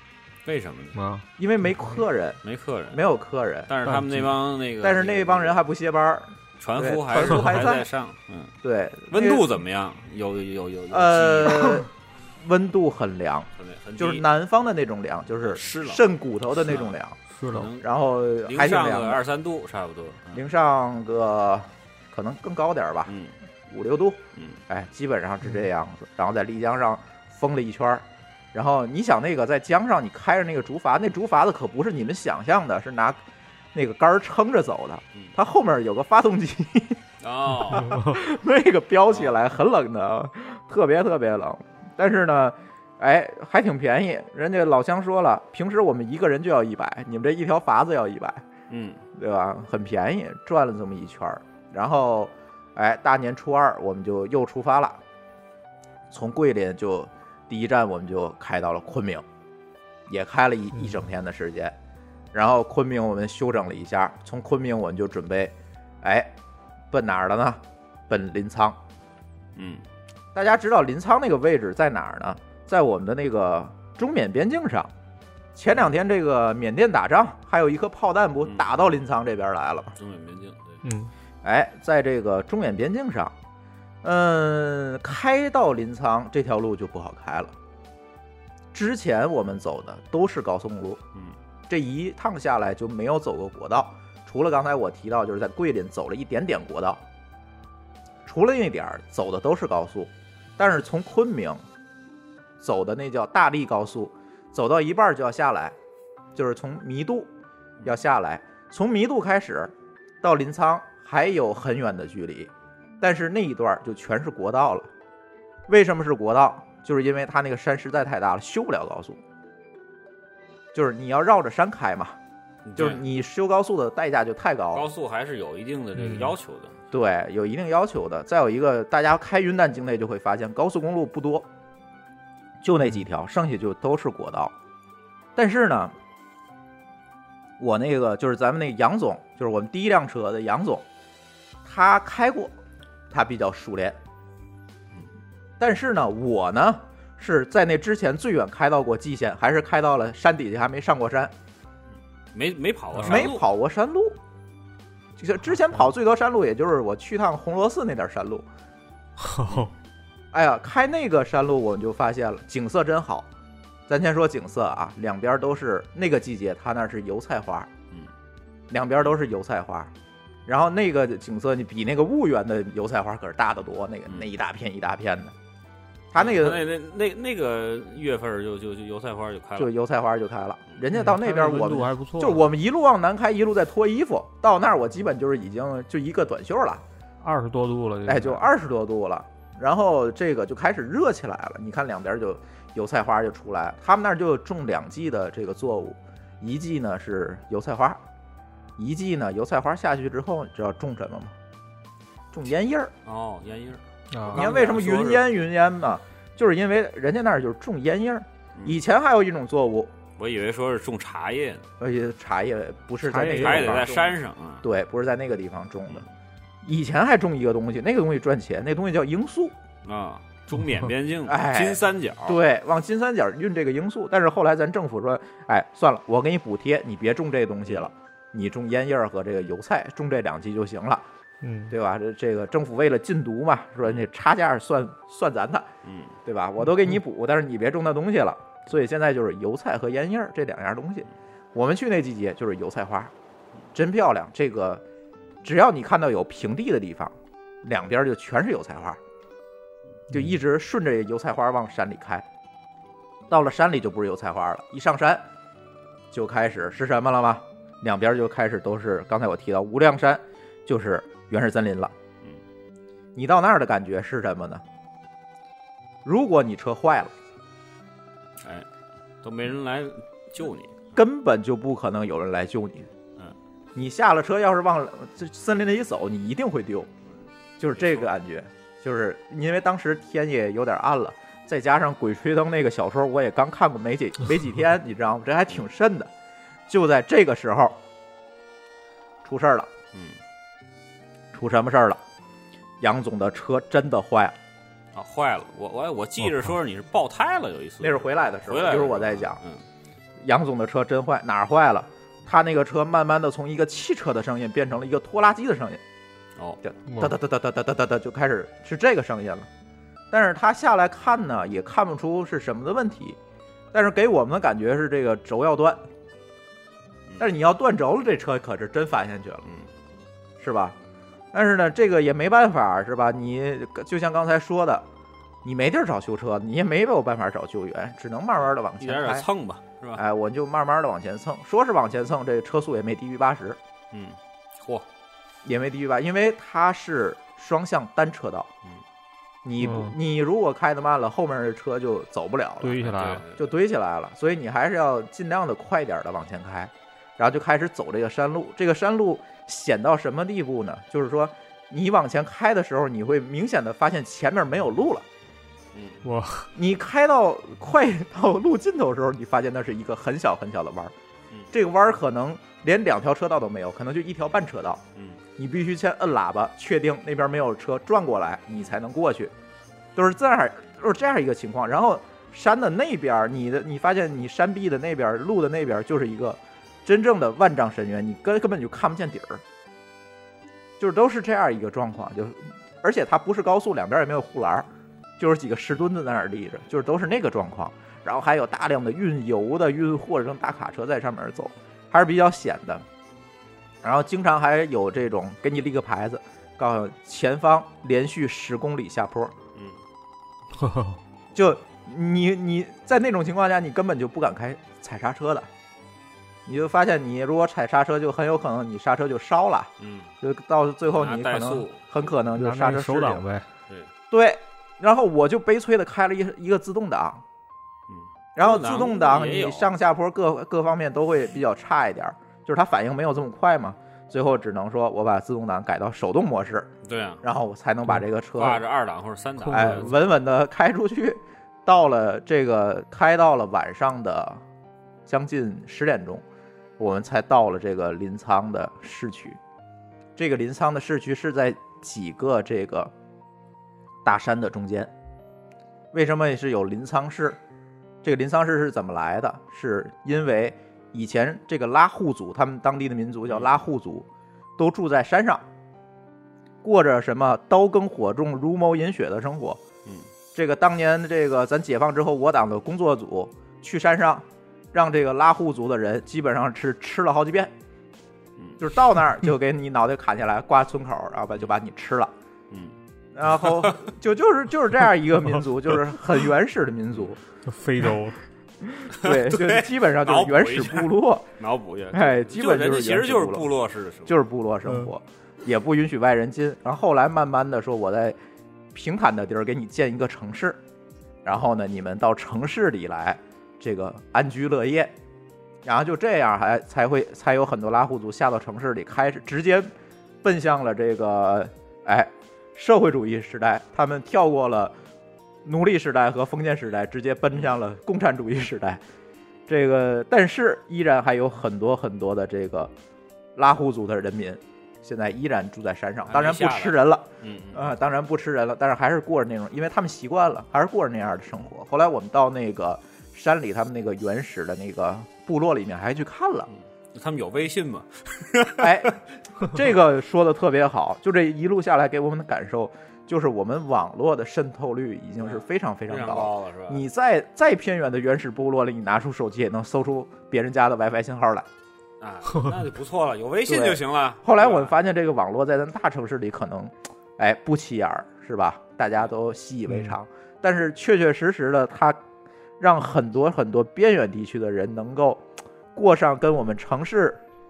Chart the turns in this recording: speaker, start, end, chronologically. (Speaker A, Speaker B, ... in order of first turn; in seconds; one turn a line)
Speaker A: 0.4-1.0
Speaker B: 0.9-1.2
Speaker C: 1.4-3.7
Speaker A: 2.4-3.0
Speaker A: 3.7-5.6
Speaker B: 3.9-4.2
Speaker C: 4.8-7.9
Speaker A: 6.6-8.5
Speaker C: 8.6-9.5
Speaker A: 9.1-11.8
Speaker C: 10.9-17.2
Speaker A: 13.6-14.2
Speaker A: 15.4-16.0
Speaker A: 16.6-17.0
Speaker B: 17.4-17.7
Speaker A: 17.5-17.9
Speaker C: 17.8-19.2
Speaker A: 18.4-20.4
Speaker C: 20.3-23.1
Speaker A: 23.1-23.3
Speaker C: 23.7-33.2
Speaker C: 33.7-37.0
Speaker A: 37.2-38.1
Speaker C: 37.7-48.4
Speaker A: 39.1-39.3
Speaker A: 48.7-49.0
Speaker C: 49.1-55.0
Speaker C: 56.1-59.2
Speaker C: 60.1-61.8
Speaker C: 62.3-66.3
Speaker C: 66.9-68.8
Speaker A: 69.5-69.8
Speaker C: 70.3-74.9
Speaker C: 75.5-80.0
Speaker A: 78.4-78.9
Speaker A: 80.0-80.8
Speaker B: 80.8-81.1
Speaker C: 81.4-83.3
Speaker C: 84.0-87.5
Speaker C: 88.7-91.0
Speaker C: 91.7-97.0
Speaker C: 98.2-101.6
Speaker C: 102.6-105.8
Speaker C: 106.3-107.3
Speaker C: 107.8-114.9
Speaker C: 115.7-119.2
Speaker C: 120.7-122.2
Speaker A: 122.7-123.0
Speaker C: 122.8-124.8
Speaker A: 124.7-126.7
Speaker B: 126.0-126.3
Speaker C: 126.9-131.5
Speaker C: 132.6-134.5
Speaker C: 135.3-135.9
Speaker C: 137.6-140.8
Speaker C: 141.6-142.5
Speaker C: 143.1-144.0
Speaker C: 145.6-151.3
Speaker A: 152.3-153.4
Speaker C: 153.0-154.2
Speaker C: 155.2-158.4
Speaker B: 159.2-159.7
Speaker C: 160.3-163.3
Speaker C: 163.9-167.7
Speaker C: 168.7-169.9
Speaker C: 170.4-175.3
Speaker C: 176.1-176.7
Speaker A: 176.1-179.7
Speaker C: 179.6-186.8
Speaker B: 180.9-182.4
Speaker B: 187.2-188.4
Speaker C: 188.1-198.0
Speaker C: 198.8-201.3
Speaker C: 202.3-202.9
Speaker A: 203.0-205.2
Speaker B: 204.1-204.5
Speaker C: 204.3-209.9
Speaker A: 210.2-211.6
Speaker C: 211.8-216.1
Speaker B: 213.0-213.9
Speaker A: 213.2-214.6
Speaker C: 216.6-219.5
Speaker A: 219.8-222.4
Speaker C: 221.2-231.1
Speaker B: 231.4-231.7
Speaker C: 231.7-235.7
Speaker A: 235.8-236.1
Speaker C: 236.2-243.1
Speaker C: 243.7-244.8
Speaker C: 245.4-249.0
Speaker C: 250.1-252.2
Speaker C: 253.3-255.2
Speaker C: 256.1-261.9
Speaker C: 263.1-264.6
Speaker C: 266.0-267.1
Speaker A: 268.4-268.7
Speaker A: 269.2-270.8
Speaker C: 270.9-272.9
Speaker C: 273.7-276.9
Speaker C: 277.6-286.1
Speaker A: 277.7-278.1
Speaker C: 286.7-287.8
Speaker C: 289.2-289.7
Speaker C: 291.3-292.0
Speaker C: 292.8-294.4
Speaker A: 294.9-299.6
Speaker C: 297.8-299.4
Speaker C: 300.2-305.8
Speaker C: 306.6-309.5
Speaker B: 306.9-307.1
Speaker C: 310.1-313.2
Speaker C: 313.7-315.8
Speaker C: 317.2-319.5
Speaker C: 320.4-320.8
Speaker C: 321.3-324.9
Speaker C: 325.4-329.3
Speaker A: 328.8-330.0
Speaker C: 329.9-333.6
Speaker A: 333.9-334.9
Speaker C: 335.4-338.5
Speaker C: 339.4-342.8
Speaker B: 339.6-339.9
Speaker B: 342.6-343.2
Speaker A: 342.8-343.4
Speaker C: 343.3-355.1
Speaker A: 355.7-356.0
Speaker B: 356.0-356.5
Speaker C: 356.5-360.9
Speaker C: 361.5-364.8
Speaker A: 364.9-365.2
Speaker C: 365.4-369.3
Speaker C: 369.9-379.4
Speaker C: 380.8-392.8
Speaker C: 393.8-399.3
Speaker B: 400.6-400.9
Speaker C: 401.3-405.5
Speaker C: 406.4-409.7
Speaker A: 409.8-410.1
Speaker C: 410.2-413.2
Speaker A: 410.9-411.8
Speaker B: 412.4-413.5
Speaker C: 414.1-417.2
Speaker A: 417.9-419.7
Speaker C: 418.4-428.6
Speaker A: 426.8-427.2
Speaker A: 428.3-429.9
Speaker C: 429.5-434.4
Speaker C: 435.1-436.2
Speaker C: 436.8-439.4
Speaker C: 440.2-442.9
Speaker C: 444.0-444.9
Speaker C: 445.9-447.4
Speaker C: 448.0-455.4
Speaker A: 453.3-453.6
Speaker C: 456.6-459.6
Speaker C: 460.3-467.5
Speaker C: 468.6-472.1
Speaker C: 473.1-477.2
Speaker A: 473.4-473.8
Speaker B: 477.5-478.2
Speaker C: 478.6-481.3
Speaker A: 478.9-484.2
Speaker C: 481.9-483.5
Speaker C: 484.1-488.2
Speaker C: 488.7-490.6
Speaker C: 491.2-494.9
Speaker C: 495.6-499.7
Speaker C: 500.2-504.7
Speaker C: 505.4-508.8
Speaker C: 509.5-512.7
Speaker C: 513.4-526.5
Speaker A: 516.1-517.7
Speaker A: 526.9-528.9
Speaker C: 528.6-541.5
Speaker A: 535.2-536.8
Speaker A: 542.0-544.8
Speaker C: 543.5-552.0
Speaker C: 552.6-555.2
Speaker C: 555.7-557.2